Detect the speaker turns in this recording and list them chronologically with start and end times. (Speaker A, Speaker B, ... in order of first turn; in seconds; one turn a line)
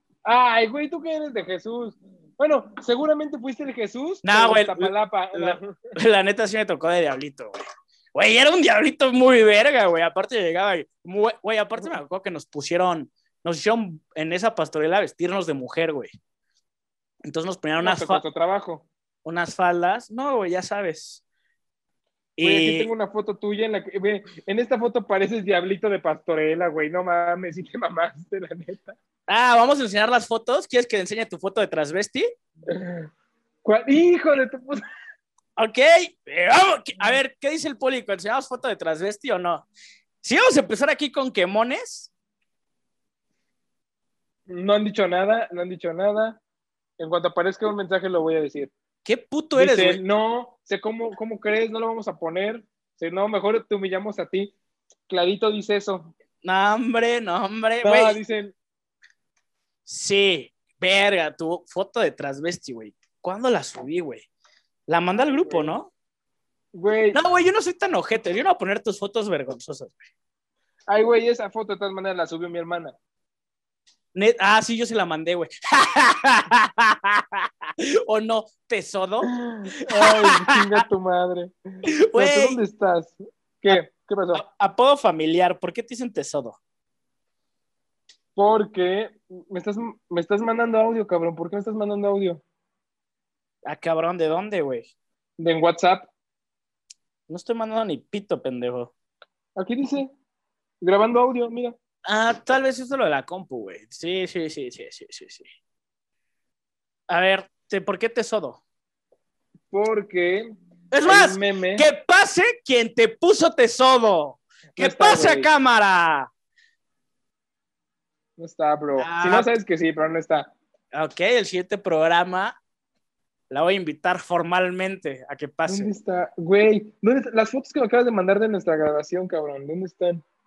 Speaker A: 0.2-5.8
Speaker B: 4.2-7.6
Speaker B: 8.1-16.1
Speaker B: 17.3-18.2
Speaker A: 17.8-18.9
Speaker B: 19.2-21.2
Speaker B: 22.4-22.9
Speaker A: 22.4-29.0
Speaker B: 29.3-32.3
Speaker A: 32.7-33.1
Speaker A: 33.6-34.8
Speaker B: 35.6-39.7
Speaker B: 40.2-42.1
Speaker A: 44.5-46.4
Speaker A: 47.0-48.7
Speaker B: 49.0-50.0
Speaker A: 49.6-54.5
Speaker A: 55.1-56.1
Speaker B: 56.4-58.2
Speaker A: 57.8-58.5
Speaker B: 59.9-64.3
Speaker B: 64.9-65.9
Speaker A: 65.3-65.8
Speaker A: 66.7-67.2
Speaker B: 67.1-70.1
Speaker A: 70.9-73.0
Speaker B: 74.2-80.8
Speaker A: 79.3-81.5
Speaker B: 82.0-82.6
Speaker A: 82.2-84.4
Speaker B: 84.3-86.6
Speaker A: 88.4-92.4
Speaker B: 93.7-94.9
Speaker A: 95.4-96.1
Speaker B: 97.3-98.9
Speaker A: 99.6-100.1
Speaker A: 100.8-101.8
Speaker B: 102.0-105.5
Speaker B: 107.1-108.6
Speaker A: 109.7-110.5
Speaker B: 110.9-116.3
Speaker A: 111.0-111.9
Speaker A: 114.8-115.5
Speaker A: 118.4-120.5
Speaker B: 119.0-119.5
Speaker B: 120.9-122.6
Speaker B: 123.5-125.9
Speaker A: 125.7-130.2